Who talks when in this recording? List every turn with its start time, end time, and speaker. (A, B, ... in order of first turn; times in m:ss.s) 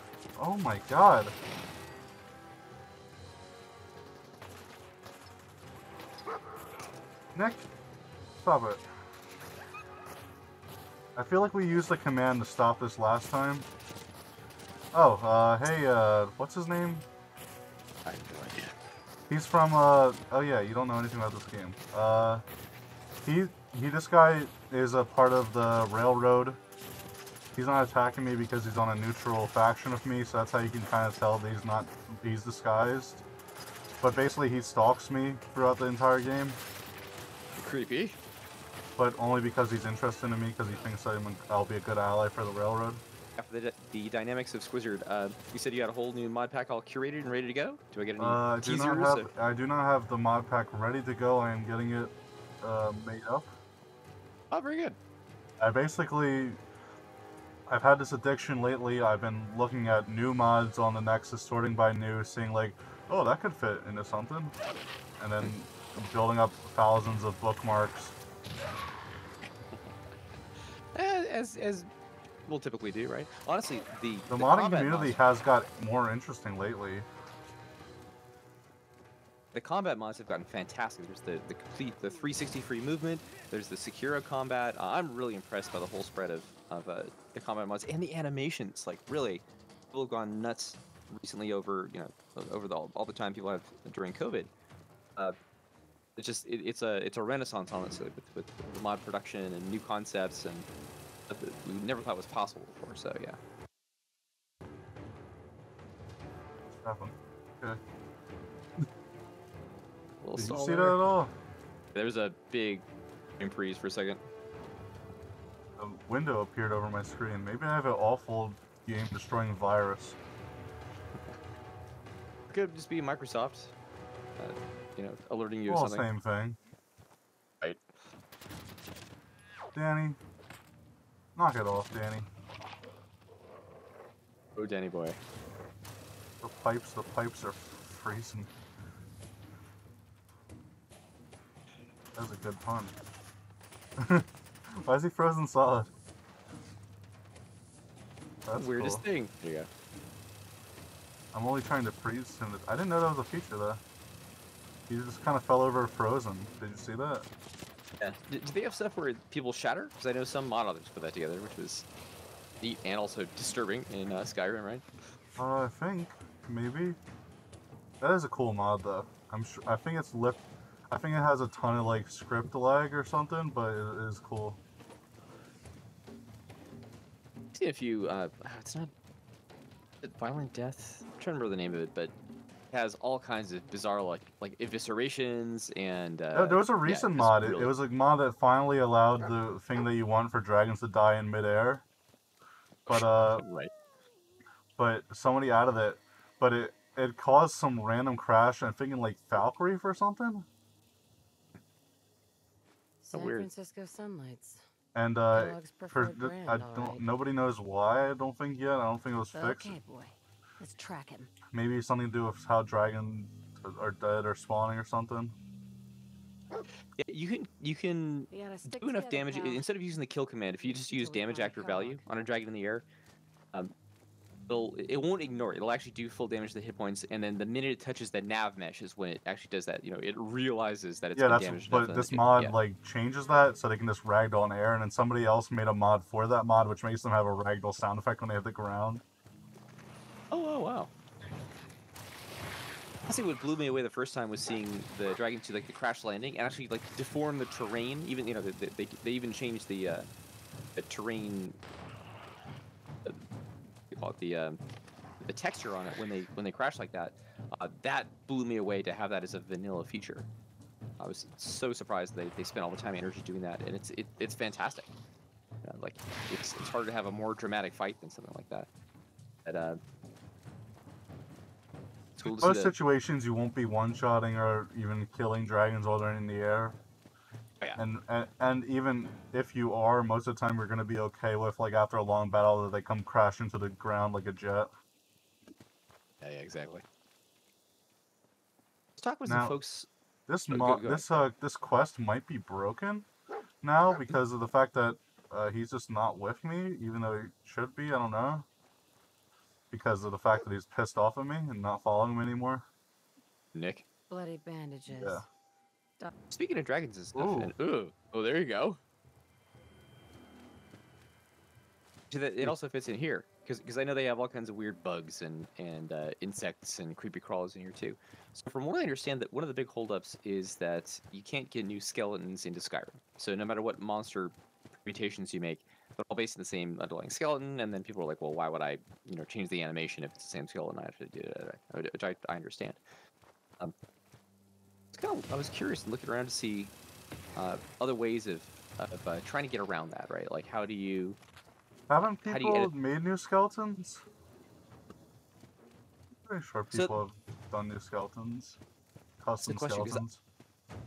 0:00.4-0:01.3 A
0:07.3-0:07.6 A
0:08.4-0:08.8 A
0:11.2-0:13.7 A
0:14.9-0:17.0 A
0:18.0-0:18.7 B
0:19.3-0:22.4 A
0:23.2-0:26.6 A
0:27.5-0:33.2 A
0:34.0-0:36.6 A
0:37.6-0:38.2 B
0:39.0-0:43.0 A
0:43.4-0:49.3 B
0:48.2-0:53.5 A
0:54.5-0:55.0 B
0:55.6-0:56.6 A
0:57.7-1:04.5 A
1:05.2-1:08.1 A
1:10.9-1:11.9 B
1:12.5-1:15.2 B
1:14.3-1:17.1 A
1:19.5-1:34.5 B
1:36.2-1:40.7 B
1:41.3-1:43.4 B
1:46.8-1:47.8 A
1:50.2-1:51.0 B
1:50.4-1:51.3 A
1:51.9-1:52.8 B
1:53.4-1:54.2 B
1:55.8-2:00.2 A
2:02.5-2:03.7 B
2:04.4-2:06.1 B
2:05.6-2:06.6 A
2:07.6-2:07.9 B
2:09.7-2:10.2 A
2:11.4-2:12.3 A
2:14.6-2:15.2 B
2:16.4-2:18.5 A
2:22.1-2:22.9 A
2:24.0-2:24.2 A
2:24.8-2:25.9 A
2:28.4-2:29.0 A
2:28.6-2:29.7 B
2:31.3-2:33.8 A
2:34.9-2:37.2 A
2:38.0-2:41.8 B
2:42.6-2:44.8 B
2:45.4-2:47.0 A
2:48.0-2:54.6 A
2:57.5-2:58.9 B
3:00.0-3:02.1 B
3:02.7-3:07.7 B
3:06.3-3:11.8 A
3:12.8-3:13.7 B
3:12.9-3:13.4 A
3:14.8-3:20.5 A
3:23.0-3:24.6 C
3:23.1-3:23.5 B
3:24.9-3:29.7 A
3:25.3-3:27.0 C
3:29.3-3:31.3 C
3:31.5-3:35.4 A
3:37.0-3:42.8 B
3:38.3-3:39.6 C
3:40.6-3:42.0 C
3:44.5-3:52.6 B
3:51.2-3:59.0 A
4:00.3-4:00.9 B
4:03.0-4:10.1 B
4:10.8-4:11.6 B
4:13.9-4:14.6 B
4:15.2-4:20.3 B
4:21.0-4:24.9 B
4:25.6-4:28.7 B
4:29.4-4:29.8 B
4:32.2-4:32.7 B
4:32.2-4:36.8 A
4:37.8-4:44.7 A
4:46.2-4:46.8 B
4:49.0-4:49.9 B
4:49.2-4:49.6 A
4:50.3-4:53.1 A
4:50.5-4:51.0 B
4:53.6-4:58.4 A
4:59.7-5:02.6 A
5:03.5-5:03.8 B
5:04.1-5:05.2 C
5:04.9-5:05.2 A
5:06.3-5:08.8 B
5:07.1-5:07.5 A
5:12.1-5:32.8 B
5:34.9-5:36.7 B
5:37.3-5:41.2 B
5:41.9-5:44.0 A
5:42.2-5:42.7 B
5:46.2-5:48.6 A
5:46.7-5:47.0 B
5:49.2-5:50.2 A
5:49.4-5:50.0 B